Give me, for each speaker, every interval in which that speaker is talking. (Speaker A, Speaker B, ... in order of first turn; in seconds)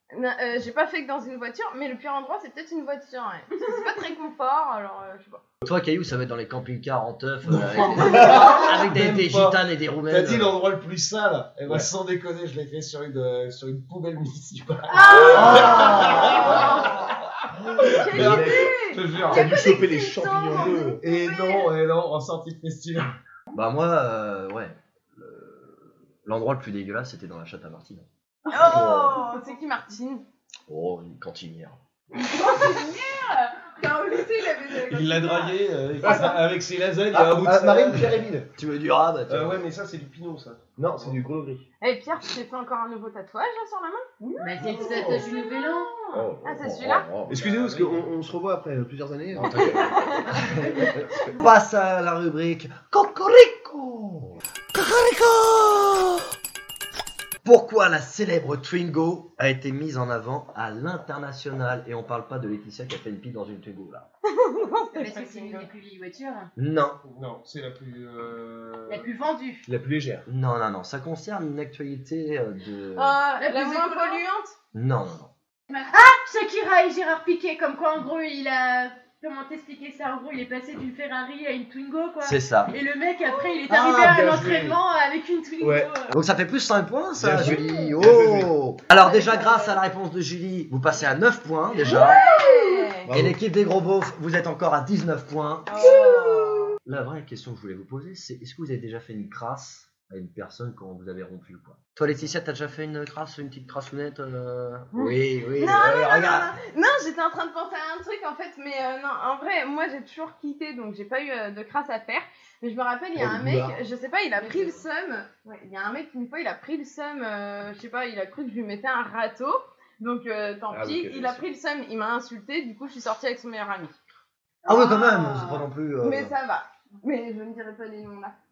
Speaker A: 0.1-5.4, 14.9-16.7, 17.8-21.6, 28.5-30.2, 41.8-45.3, 46.4-47.2, 49.6-50.5, 64.3-65.7, 73.0-74.5, 83.2-83.7, 89.1-89.7, 91.8-93.1, 95.7-96.8, 104.9-124.0, 126.0-128.4
Speaker B: 5.6-10.6, 15.2-16.9, 23.5-28.1, 28.7-29.1, 30.7-31.8, 38.6-39.6, 46.6-47.3, 49.4-56.3, 57.4-64.1, 66.6-67.0, 70.3-73.2, 74.7-75.3, 82.2-82.8, 86.1-92.3, 93.1-106.5, 124.7-126.3
Speaker C: 7.5-19.5, 21.0-23.1, 34.9-38.2, 39.3-41.2, 44.8-45.2, 47.2-48.1, 67.0-69.1, 83.8-84.8
Speaker D: 14.9-15.8, 44.4-45.9, 64.9-66.5, 68.9-69.7, 73.4-74.2, 75.8-86.2
Speaker E: 18.0-21.0, 28.7-29.0, 37.1-38.5, 40.8-41.6, 46.1-51.4, 69.7-70.3, 83.7-84.8, 85.6-85.9, 87.2-88.5, 93.1-93.4, 113.2-113.8, 120.7-121.5
Speaker F: 28.5-29.2, 32.1-35.5, 44.6-46.2, 114.4-114.8, 124.7-125.5